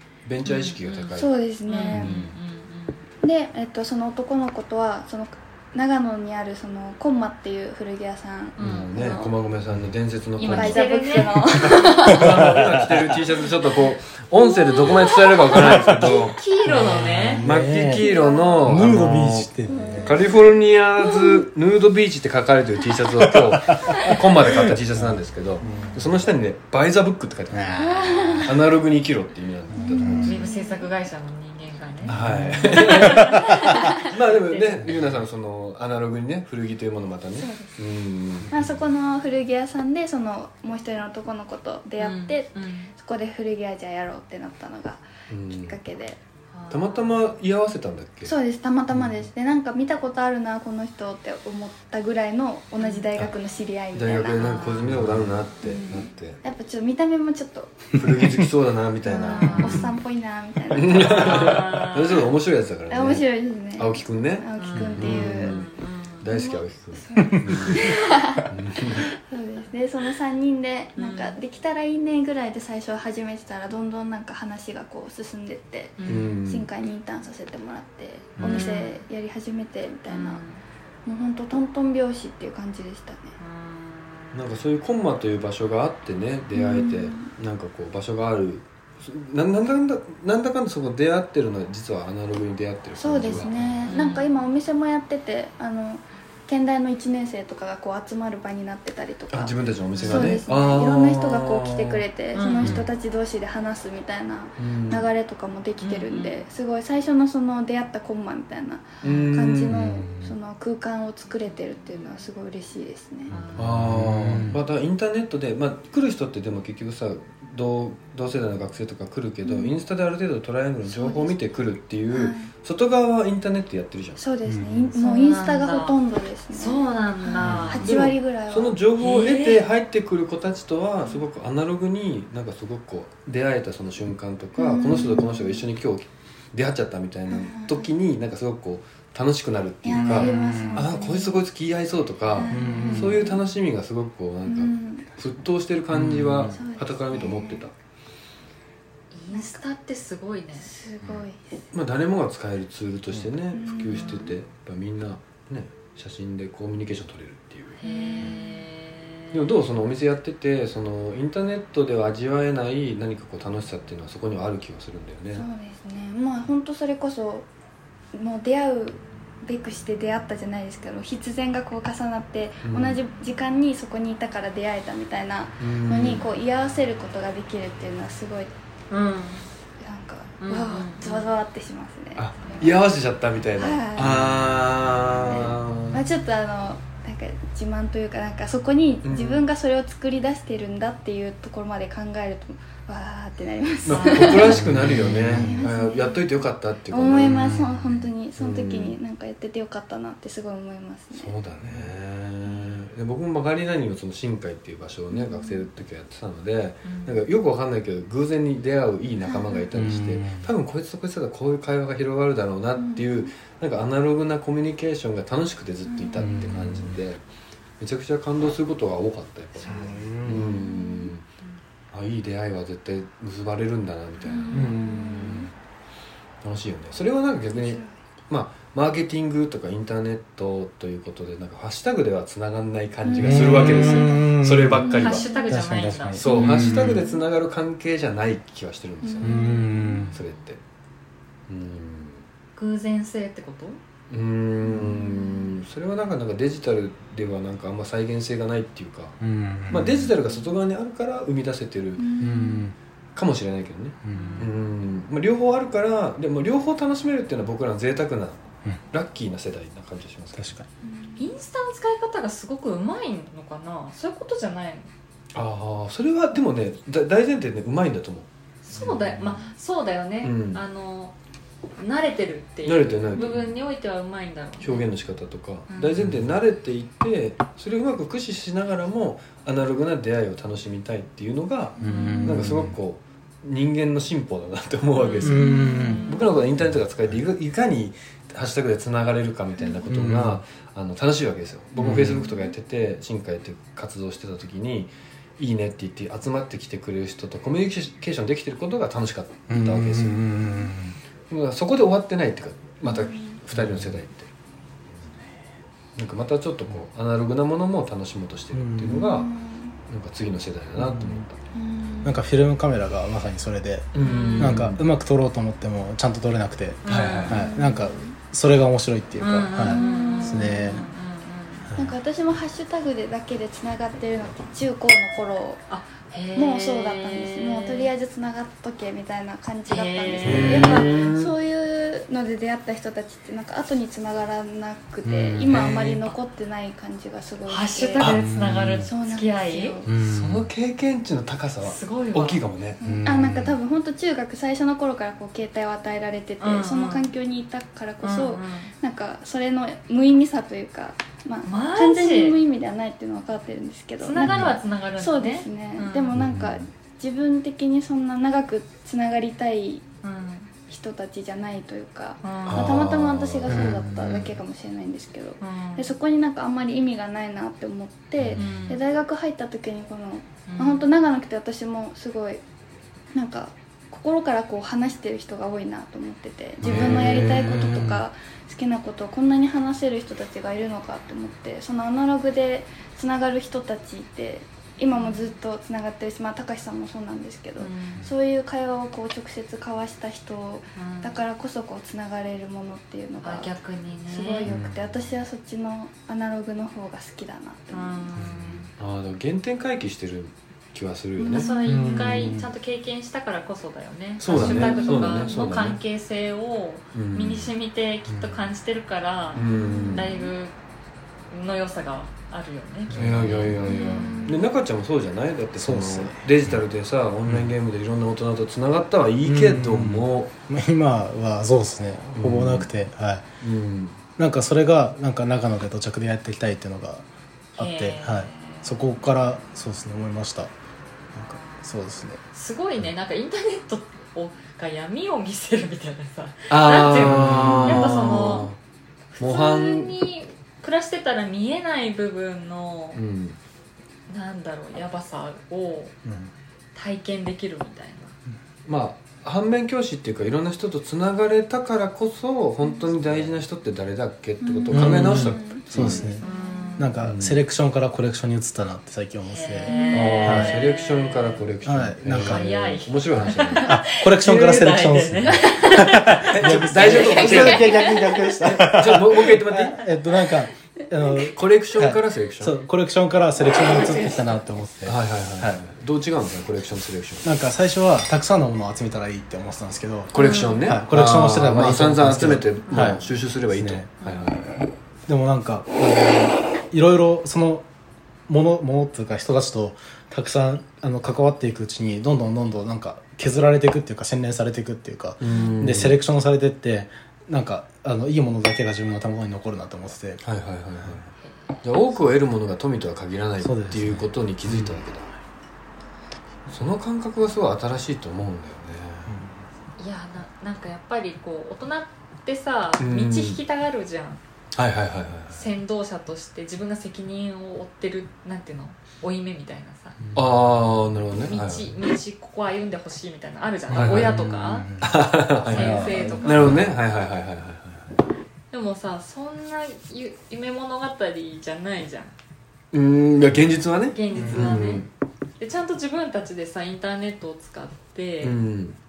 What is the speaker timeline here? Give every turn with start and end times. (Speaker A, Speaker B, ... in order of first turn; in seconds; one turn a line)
Speaker A: 0.2-1.4
Speaker B: 0.4-3.0
Speaker C: 1.1-2.1
Speaker A: 1.9-2.3
Speaker C: 3.2-9.3
Speaker B: 8.6-8.9
Speaker A: 8.6-10.9
Speaker B: 10.4-12.1
Speaker C: 10.5-12.4
Speaker A: 11.6-16.4
Speaker D: 12.2-13.1
Speaker B: 14.5-17.4
Speaker C: 14.8-15.3
Speaker D: 15.5-18.1
Speaker A: 17.4-19.5
Speaker C: 17.9-18.7
Speaker D: 18.6-20.2
Speaker C: 19.7-21.4
Speaker A: 20.0-30.5
Speaker D: 23.2-26.2
Speaker C: 25.6-26.0
Speaker D: 27.5-28.6
Speaker C: 27.8-28.5
Speaker D: 29.7-30.4
Speaker C: 29.8-30.9
Speaker B: 30.2-35.0
Speaker D: 32.0-33.8
Speaker A: 32.0-38.7
Speaker C: 37.4-37.8
Speaker C: 38.5-46.2
Speaker B: 42.0-42.9
Speaker A: 45.3-45.8
Speaker B: 46.5-47.2
Speaker A: 46.7-48.3
Speaker C: 48.2-54.7
Speaker B: 52.8-53.1
Speaker A: 53.9-56.4
Speaker B: 54.4-55.0
Speaker C: 55.6-58.0
Speaker A: 57.9-59.9
Speaker C: 59.0-61.6
Speaker B: 59.2-60.0
Speaker A: 60.7-69.0
Speaker B: 61.0-62.3
Speaker C: 62.9-65.6
Speaker B: 64.6-66.2
Speaker C: 66.3-80.4
Speaker D: 67.3-67.7
Speaker B: 71.0-71.4
Speaker B: 76.0-76.3
Speaker A: 76.0-76.7
Speaker A: 78.4-78.7
Speaker B: 78.4-79.0
Speaker B: 80.1-80.6
Speaker C: 81.0-83.3
Speaker B: 83.4-84.4
Speaker A: 84.3-93.9
Speaker C: 86.5-87.3
Speaker C: 93.0-113.3
Speaker B: 93.9-94.3
Speaker A: 99.3-102.0
Speaker B: 99.9-100.4
Speaker B: 102.3-102.8
Speaker D: 102.6-102.9
Speaker A: 104.6-105.1
Speaker B: 105.8-106.4
Speaker A: 109.0-110.3
Speaker B: 113.3-113.8
Speaker D: 113.5-114.6
Speaker A: 113.5-124.2
Speaker C: 119.4-119.7
Speaker C: 120.8-121.4
Speaker C: 122.1-122.5
Speaker C: 124.2-128.8
Speaker D: 124.5-124.9
Speaker B: 125.0-126.0
Speaker B: 126.5-127.9
Speaker D: 127.4-127.7
Speaker A: 127.5-147.7
Speaker B: 129.0-129.6
Speaker C: 134.6-135.6
Speaker C: 137.3-137.9
Speaker C: 139.8-141.4
Speaker D: 139.9-140.8
Speaker C: 142.3-143.4
Speaker D: 142.5-143.2
Speaker C: 144.4-145.1
Speaker D: 145.9-146.6
Speaker C: 146.5-147.6
Speaker B: 149.1-150.7
Speaker C: 149.3-149.6
Speaker C: 150.6-151.6
Speaker A: 151.7-157.8
Speaker C: 153.5-154.3
Speaker B: 153.9-154.3
Speaker B: 157.8-159.4
Speaker C: 157.8-158.6
Speaker A: 159.3-165.4
Speaker C: 165.3-167.5
Speaker C: 168.1-178.5
Speaker A: 172.6-173.0
Speaker A: 175.6-176.2
Speaker B: 178.9-179.5
Speaker C: 179.8-182.8
Speaker B: 180.4-181.3
Speaker A: 182.2-186.0
Speaker C: 183.6-184.2
Speaker C: 185.2-194.6
Speaker A: 189.0-189.4
Speaker A: 193.8-197.6
Speaker B: 193.9-194.5
Speaker D: 194.5-195.6
Speaker C: 195.3-196.3
Speaker C: 196.9-201.3
Speaker D: 197.2-198.1
Speaker A: 198.4-198.9
Speaker A: 201.1-217.2
Speaker D: 201.6-201.9
Speaker C: 202.5-202.8
Speaker C: 205.1-205.7
Speaker B: 206.8-207.2
Speaker C: 209.2-209.7
Speaker D: 209.7-210.5
Speaker C: 212.8-213.3
Speaker C: 215.9-216.6
Speaker D: 216.2-217.0
Speaker A: 217.8-221.2
Speaker C: 219.7-221.1
Speaker D: 219.7-220.5
Speaker A: 221.9-225.5
Speaker C: 224.3-225.5
Speaker D: 224.5-225.1
Speaker A: 226.4-235.3
Speaker C: 227.5-228.0
Speaker C: 233.0-235.6
Speaker D: 233.2-237.1
Speaker B: 235.0-236.5
Speaker A: 236.2-239.4
Speaker C: 236.2-237.2
Speaker C: 239.0-240.1
Speaker D: 239.2-240.2
Speaker B: 239.4-240.2
Speaker A: 240.1-240.6
Speaker A: 241.5-242.2
Speaker B: 242.6-243.8
Speaker A: 244.1-252.0
Speaker C: 244.6-245.6
Speaker D: 249.2-250.1
Speaker C: 252.0-252.7
Speaker D: 252.2-252.7
Speaker A: 253.1-260.5
Speaker D: 254.0-254.5
Speaker B: 254.1-254.5
Speaker D: 260.4-260.6
Speaker C: 260.8-261.2
Speaker B: 261.2-264.9
Speaker A: 265.3-269.4
Speaker B: 268.6-271.1
Speaker A: 270.2-270.6
Speaker B: 271.8-274.9
Speaker A: 272.6-273.6
Speaker A: 274.6-285.4
Speaker B: 275.7-276.1
Speaker C: 281.8-282.4
Speaker D: 281.8-282.8
Speaker B: 284.9-286.2
Speaker D: 285.2-286.1
Speaker C: 285.3-286.2
Speaker A: 286.1-300.3
Speaker D: 289.9-290.4
Speaker D: 291.8-292.2
Speaker C: 291.8-292.5
Speaker D: 299.5-301.0
Speaker A: 301.3-304.3
Speaker C: 302.8-303.4
Speaker D: 303.5-304.0
Speaker A: 305.9-309.3
Speaker D: 308.5-309.1
Speaker C: 308.9-309.8
Speaker A: 309.9-311.4
Speaker D: 310.8-311.2
Speaker C: 311.5-312.2
Speaker D: 312.0-320.9
Speaker A: 313.9-314.8
Speaker B: 314.0-314.7
Speaker B: 316.8-317.5
Speaker A: 316.9-317.4
Speaker C: 317.3-318.1
Speaker B: 319.2-321.7
Speaker C: 319.6-320.7
Speaker D: 321.6-321.9
Speaker C: 321.8-325.6
Speaker B: 325.7-327.9
Speaker C: 326.4-338.1
Speaker B: 329.7-331.1
Speaker A: 330.2-331.3
Speaker D: 330.2-330.7
Speaker D: 335.0-335.8
Speaker B: 337.4-339.8
Speaker D: 338.0-338.9
Speaker C: 338.8-339.9
Speaker D: 339.9-340.5
Speaker A: 340.0-342.8
Speaker B: 341.6-342.4
Speaker C: 342.8-359.8
Speaker D: 342.8-343.6
Speaker B: 346.4-347.1
Speaker B: 348.0-348.7
Speaker B: 351.4-352.4
Speaker B: 354.0-356.1
Speaker A: 356.1-356.6
Speaker B: 360.0-360.5
Speaker C: 360.7-372.4
Speaker B: 362.2-362.8
Speaker A: 362.4-363.8
Speaker D: 363.5-364.3
Speaker B: 365.4-365.9
Speaker B: 368.4-368.8
Speaker B: 370.5-370.9
Speaker C: 373.1-393.5
Speaker D: 376.6-378.0
Speaker A: 376.6-377.7
Speaker B: 384.9-385.4
Speaker B: 387.6-388.1
Speaker B: 390.8-391.2
Speaker B: 393.2-394.5
Speaker C: 394.1-398.1
Speaker B: 397.7-398.7
Speaker D: 398.1-398.7
Speaker A: 398.8-401.5
Speaker C: 401.2-402.0
Speaker B: 401.3-410.5
Speaker D: 401.6-402.5
Speaker A: 404.2-405.8
Speaker C: 404.3-405.4
Speaker A: 406.9-407.5
Speaker D: 408.1-408.4
Speaker A: 409.3-410.2
Speaker C: 409.5-410.3
Speaker B: 411.3-414.2
Speaker D: 412.9-413.5
Speaker A: 412.9-420.3
Speaker C: 413.6-414.5
Speaker D: 415.6-416.5
Speaker D: 419.2-423.2
Speaker A: 422.1-422.7
Speaker A: 423.4-424.0
Speaker D: 424.2-427.0
Speaker D: 427.6-430.5
Speaker B: 427.6-428.9
Speaker D: 431.1-432.2
Speaker B: 431.1-431.7
Speaker B: 432.3-438.5
Speaker A: 436.5-438.6
Speaker D: 437.0-438.0
Speaker B: 439.1-443.0
Speaker A: 439.2-439.9
Speaker A: 442.9-443.4
Speaker B: 444.1-445.9
Speaker D: 446.0-446.3
Speaker B: 446.7-448.1
Speaker A: 448.6-456.1
Speaker C: 454.4-456.8
Speaker D: 454.7-456.2
Speaker B: 455.8-457.0
Speaker D: 456.8-460.6
Speaker A: 457.0-457.4
Speaker B: 459.2-461.4
Speaker C: 459.6-460.3
Speaker A: 459.9-463.8
Speaker D: 461.6-462.5
Speaker B: 462.1-468.0
Speaker D: 463.6-475.6
Speaker A: 466.3-469.8
Speaker A: 471.3-472.6
Speaker B: 473.5-474.4
Speaker A: 474.8-477.3
Speaker D: 477.2-483.9
Speaker A: 480.1-484.5
Speaker B: 480.1-480.7
Speaker B: 482.7-483.0
Speaker B: 484.0-484.3
Speaker D: 485.1-487.6
Speaker D: 488.3-500.2
Speaker A: 495.2-496.0
Speaker A: 500.2-505.1
Speaker B: 501.2-501.6
Speaker D: 503.4-504.8
Speaker A: 506.5-509.2
Speaker D: 509.1-509.4
Speaker B: 509.8-514.2
Speaker A: 512.8-513.4
Speaker A: 514.5-515.5
Speaker B: 515.3-520.0
Speaker D: 520.0-520.3
Speaker A: 520.1-521.7
Speaker B: 521.2-524.7
Speaker D: 523.7-526.7
Speaker A: 523.7-524.2
Speaker A: 524.8-528.0
Speaker B: 525.5-526.6
Speaker B: 528.5-532.1
Speaker A: 532.7-534.9
Speaker B: 533.9-534.9
Speaker D: 534.1-534.7
Speaker B: 535.4-538.4
Speaker A: 538.2-538.8